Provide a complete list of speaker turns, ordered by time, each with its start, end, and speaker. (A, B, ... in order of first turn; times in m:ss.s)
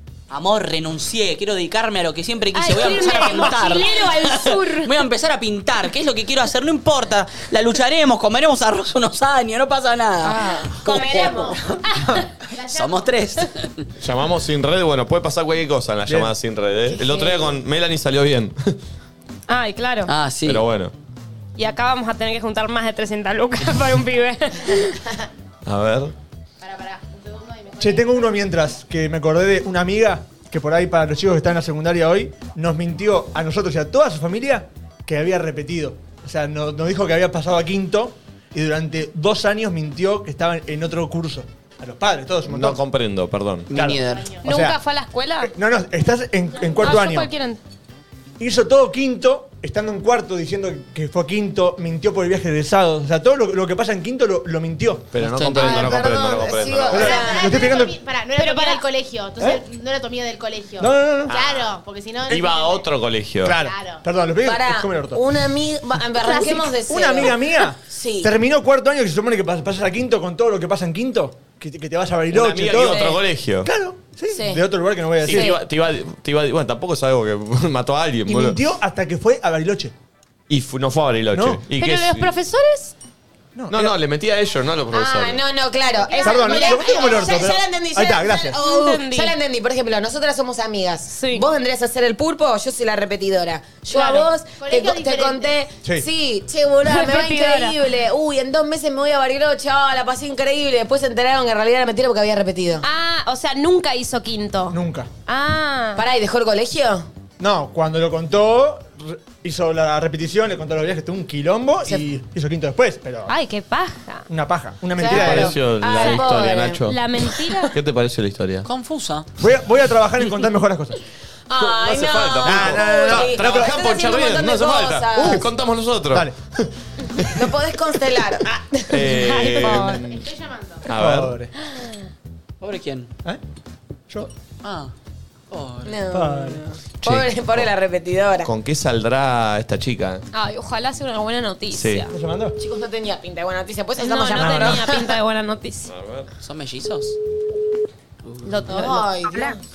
0:00.3-0:11.3 A
0:02.5-0:05.0 B
0:10.2-0:11.6 C
0:10.8-0:12.2 B
0:11.0-0:11.5 D
0:12.5-0:13.2 D
0:12.7-0:13.8 A
0:14.0-0:18.7 E
0:16.1-0:16.3 F
0:17.0-0:17.5 C
0:19.5-0:20.1 B
0:20.0-0:20.6 A
0:20.4-0:20.9 E
0:21.6-0:25.0 B
0:25.6-0:26.1 E
0:26.6-0:28.4 D
0:27.8-0:42.8 F
0:42.4-0:43.7 E
0:43.7-0:44.3 A
0:43.7-0:44.8 F
0:44.1-0:44.4 D
0:44.4-0:45.5 B
0:45.4-0:47.3 F
0:46.8-0:47.6 B
0:48.4-0:55.1 F
0:55.1-0:57.2 E
0:55.2-0:55.9 A
0:55.6-0:57.7 C
0:56.9-0:58.0 F
0:57.0-1:02.9 D
0:58.4-0:58.8 B
1:00.8-1:01.3 F
1:01.3-1:01.7 E
1:02.3-1:03.6 E
1:03.4-1:05.2 F
1:03.6-1:04.1 D
1:04.4-1:08.3 C
1:06.2-1:06.7 D
1:06.7-1:15.5 F
1:12.3-1:13.7 E
1:12.8-1:13.2 C
1:14.3-1:14.6 C
1:15.2-1:15.6 C
1:15.2-1:18.6 E
1:18.2-1:19.9 F
1:20.5-1:22.3 E
1:21.3-1:21.6 F
1:21.8-1:22.9 B
1:23.5-1:24.0 F
1:23.7-1:25.4 E
1:24.9-1:42.8 C
1:26.1-1:27.2 D
1:26.2-1:26.6 B
1:26.2-1:28.7 F
1:28.6-1:29.3 B
1:31.1-1:31.4 B
1:33.9-1:35.6 D
1:36.8-1:37.7 B
1:42.8-1:46.0 B
1:44.7-1:45.1 F
1:46.0-1:47.1 C
1:47.4-1:53.3 F
1:53.3-1:54.3 B
1:54.3-1:55.6 F
1:55.0-1:57.8 B
1:55.0-1:56.8 C
1:55.1-1:58.7 E
1:58.6-1:59.3 A
1:59.4-2:01.0 F
2:01.5-2:05.5 C
2:01.6-2:07.5 E
2:02.4-2:03.7 F
2:07.3-2:09.1 C
2:08.9-2:10.3 E
2:09.1-2:10.0 B
2:09.9-2:10.9 D
2:10.9-2:11.3 E
2:10.9-2:11.5 F
2:12.6-2:13.1 A
2:14.6-2:14.9 A
2:15.5-2:16.0 A
2:15.8-2:18.5 C
2:16.1-2:16.6 F
2:17.0-2:17.7 E
2:18.4-2:20.2 E
2:20.3-2:22.1 B
2:21.7-2:22.1 E
2:22.1-2:22.5 F
2:22.6-2:25.2 C
2:24.0-2:25.9 B
2:24.4-2:24.8 F
2:25.9-2:26.3 E
2:26.4-2:27.2 A
2:28.2-2:29.0 A
2:28.4-2:29.0 B
2:28.7-2:29.6 C